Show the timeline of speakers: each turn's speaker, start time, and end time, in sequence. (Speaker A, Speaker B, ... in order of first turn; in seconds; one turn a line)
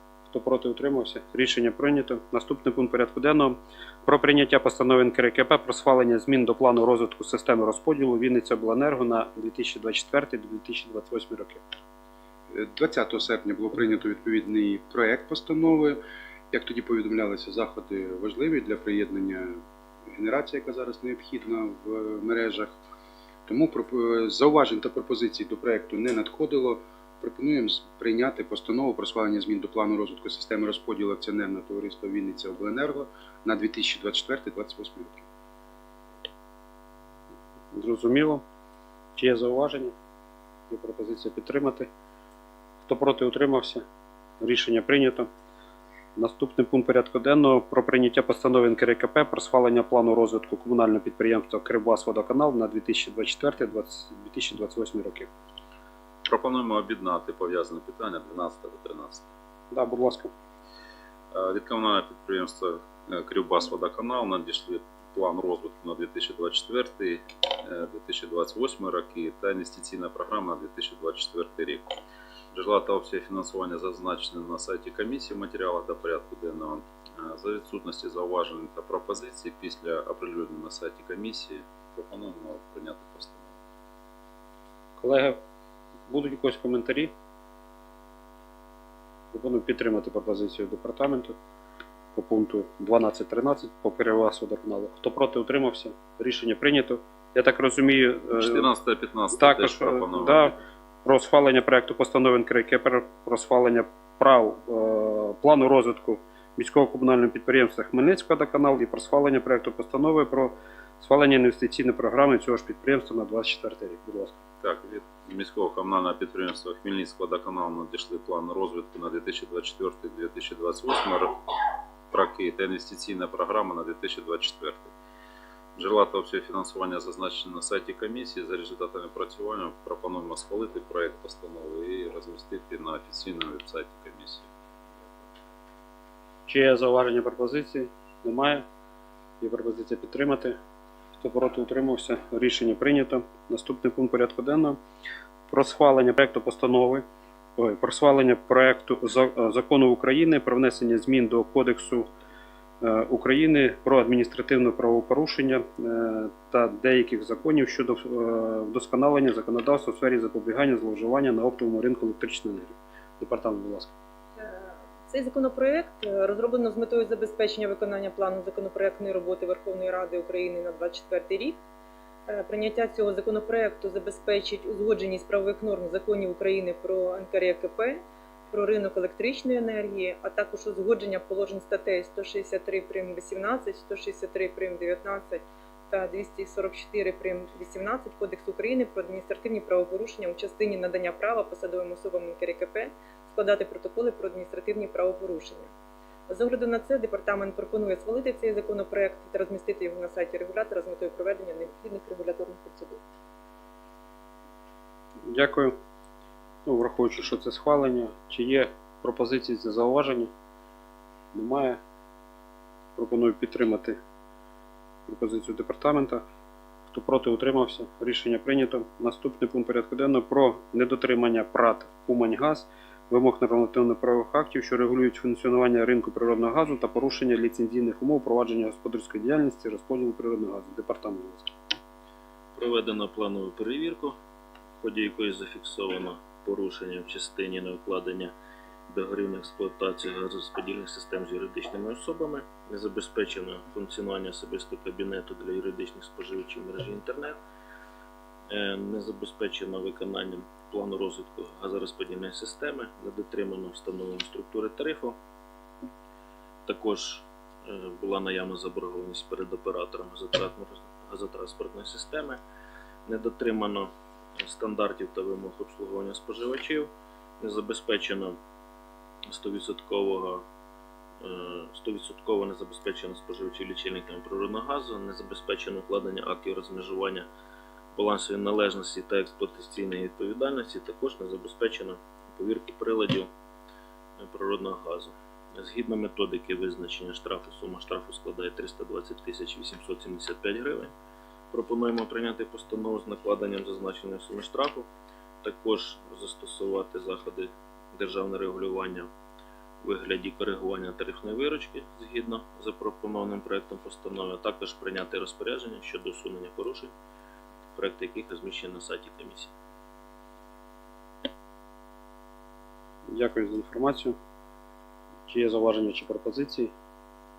Speaker A: 0.3-11.6
Speaker B: 12.5-16.0
Speaker B: 16.5-19.6
Speaker B: 20.1-22.7
Speaker B: 23.5-35.2
Speaker A: 37.7-38.4
Speaker A: 39.1-39.9
Speaker A: 40.7-41.9
Speaker A: 42.8-43.8
Speaker A: 44.4-45.3
Speaker A: 46.1-55.3
Speaker C: 56.2-59.3
Speaker A: 59.7-60.3
Speaker C: 61.3-71.9
Speaker C: 72.5-83.5
Speaker A: 85.0-85.4
Speaker A: 86.1-87.1
Speaker A: 89.3-91.3
Speaker A: 92.1-98.7
Speaker C: 98.3-100.5
Speaker A: 99.3-114.3
Speaker C: 114.6-121.4
Speaker C: 122.1-124.9
Speaker C: 125.8-134.5
Speaker A: 136.5-138.6
Speaker A: 139.4-140.6
Speaker A: 141.2-144.8
Speaker A: 145.5-147.0
Speaker A: 147.6-152.1
Speaker A: 152.8-163.9
Speaker D: 164.4-171.6
Speaker D: 172.3-195.7
Speaker D: 196.3-203.0
Speaker A: 205.3-205.7
Speaker A: 206.7-210.3
Speaker A: 211.3-211.8
Speaker A: 212.9-214.0
Speaker A: 215.1-216.2
Speaker A: 216.9-231.5
Speaker E: 232.5-234.2
Speaker E: 234.8-238.3
Speaker E: 238.9-247.4
Speaker E: 248.5-255.2
Speaker E: 256.6-262.4
Speaker E: 263.1-268.4
Speaker E: 269.3-270.4
Speaker E: 271.2-277.3
Speaker E: 277.9-283.3
Speaker E: 284.2-290.9
Speaker E: 291.5-294.9
Speaker E: 295.4-299.1
Speaker E: 299.8-306.9
Speaker E: 307.8-309.5
Speaker A: 313.1-314.1
Speaker A: 315.3-316.7